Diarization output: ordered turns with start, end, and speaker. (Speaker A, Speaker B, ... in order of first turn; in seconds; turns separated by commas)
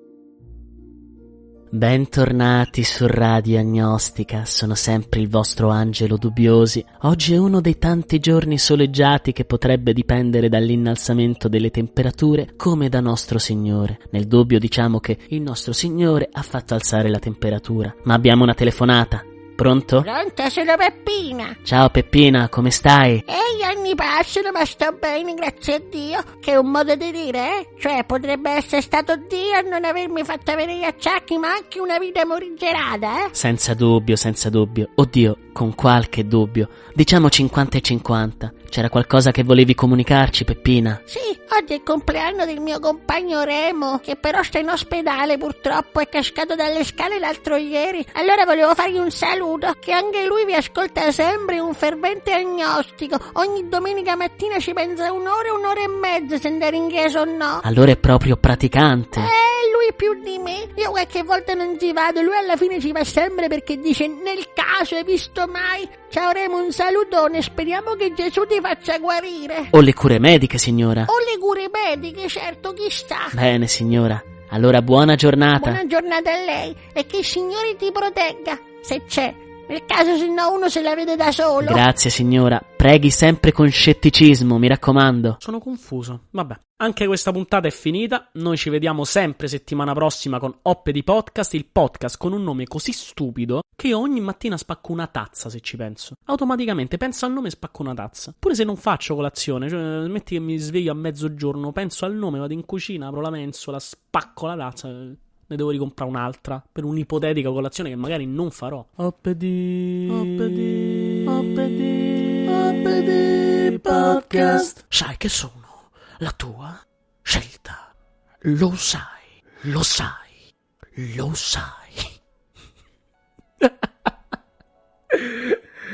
Speaker A: 1.7-20.1, Speaker B: 20.0-21.6, Speaker A: 21.6-23.2, Speaker B: 23.3-33.3, Speaker A: 33.4-41.0, Speaker B: 41.1-57.6, Speaker A: 57.6-59.3, Speaker B: 59.2-69.7, Speaker A: 69.7-71.1, Speaker B: 71.1-73.4, Speaker A: 73.3-75.8, Speaker B: 75.6-81.8, Speaker A: 81.6-85.4, Speaker C: 85.4-117.8, Speaker C: 118.4-120.2, Speaker C: 121.0-121.4, Speaker A: 121.4-121.9, Speaker C: 125.1-125.5